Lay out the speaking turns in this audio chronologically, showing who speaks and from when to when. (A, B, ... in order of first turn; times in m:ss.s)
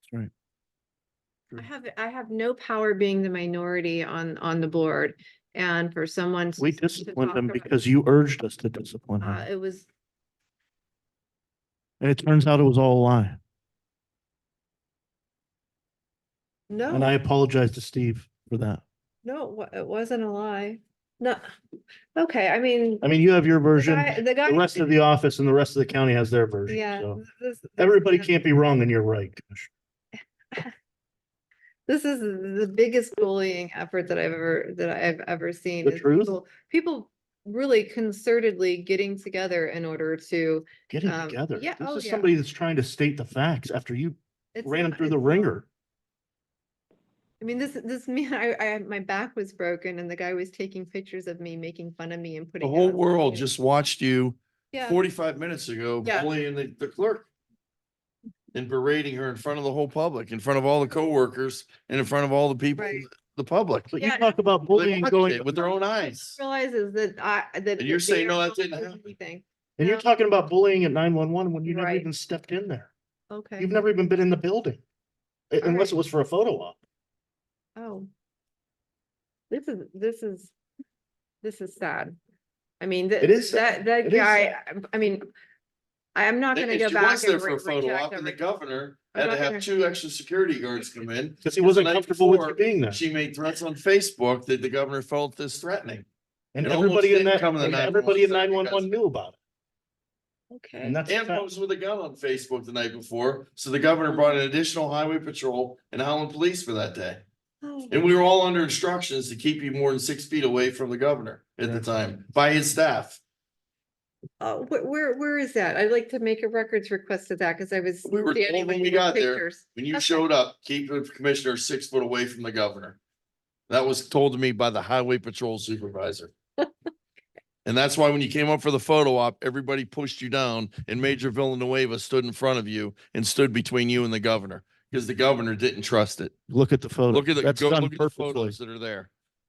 0:01.6-0:07.7 A
0:06.6-0:09.4 B
0:09.2-0:09.9 A
0:12.0-0:13.4 B
0:16.7-0:17.1 A
0:16.9-0:18.8 B
0:19.2-0:21.4 A
0:22.1-0:23.0 A
0:23.0-0:27.2 B
0:23.8-0:24.7 A
0:26.7-0:28.3 A
0:27.8-0:29.7 B
0:31.9-0:42.3 A
0:35.8-0:36.4 B
0:40.9-0:45.6 B
0:44.5-0:45.5 A
0:47.4-0:53.5 A
0:52.6-0:57.3 C
0:54.7-0:55.0 A
0:56.0-0:56.3 A
0:58.5-1:03.9 C
1:02.7-1:03.1 A
1:03.9-1:05.7 B
1:04.0-1:04.4 A
1:04.7-1:06.4 C
1:05.6-1:10.0 A
1:07.8-1:09.0 C
1:09.8-1:12.9 B
1:11.6-1:12.0 A
1:13.3-1:13.8 A
1:13.6-1:14.8 B
1:15.5-1:16.8 B
1:15.6-1:15.9 A
1:17.8-1:18.1 A
1:19.5-1:20.5 A
1:21.4-1:22.2 A
1:22.8-1:25.3 A
1:23.2-1:24.6 B
1:26.1-1:28.4 A
1:26.5-1:36.0 C
1:29.1-1:29.7 A
1:31.4-1:33.0 B
1:36.5-1:39.4 B
1:36.6-1:38.9 C
1:40.5-1:41.0 A
1:40.8-1:41.4 B
1:41.0-1:47.2 C
1:47.6-1:48.0 A
1:47.9-1:53.2 C
1:54.4-2:00.2 A
1:58.1-2:03.0 C
2:03.7-2:06.3 C
2:07.6-2:16.3 C
2:16.5-2:18.6 B
2:17.1-2:19.1 C